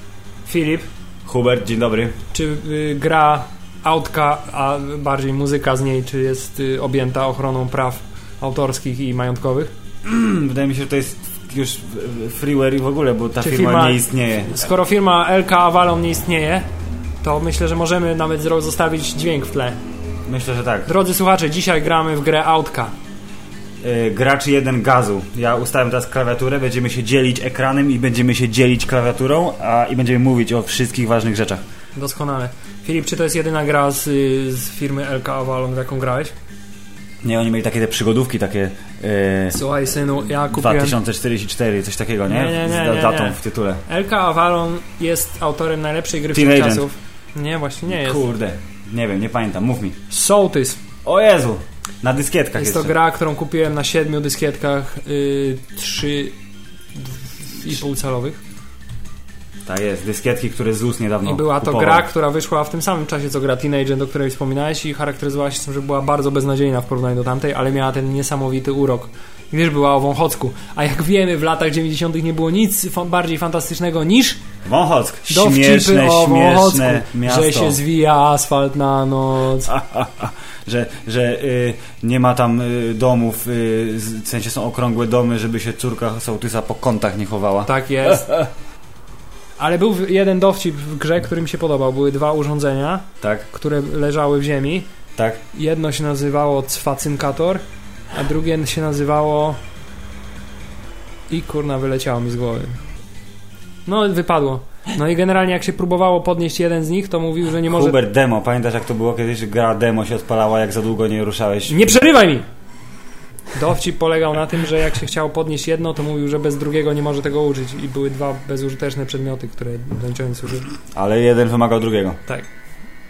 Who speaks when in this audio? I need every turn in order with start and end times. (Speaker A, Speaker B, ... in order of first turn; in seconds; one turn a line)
Speaker A: 0.5-0.9
Speaker B: 1.2-2.2
Speaker A: 2.3-9.7
Speaker B: 10.0-14.7
Speaker A: 13.4-16.7
Speaker A: 17.2-19.8
Speaker B: 20.3-20.9
Speaker A: 20.9-22.9
Speaker B: 23.8-31.6
Speaker A: 32.0-36.3
Speaker B: 37.2-39.6
Speaker A: 39.5-41.0
Speaker B: 40.5-43.8
Speaker A: 42.3-48.3
Speaker B: 46.3-46.9
Speaker B: 47.9-50.0
Speaker A: 50.1-50.8
Speaker B: 51.0-53.0
Speaker A: 52.5-56.3
Speaker A: 57.0-58.4
Speaker B: 59.7-62.1
Speaker A: 61.2-74.4
Speaker B: 74.6-77.8
Speaker A: 75.3-79.7
Speaker B: 79.7-88.4
Speaker A: 87.7-88.4
Speaker A: 89.6-94.9
Speaker B: 93.2-93.5
Speaker A: 95.5-99.6
Speaker A: 101.3-102.8
Speaker A: 103.8-108.0
Speaker B: 107.7-111.9
Speaker A: 111.7-112.4
Speaker A: 113.5-120.7
Speaker B: 120.9-122.2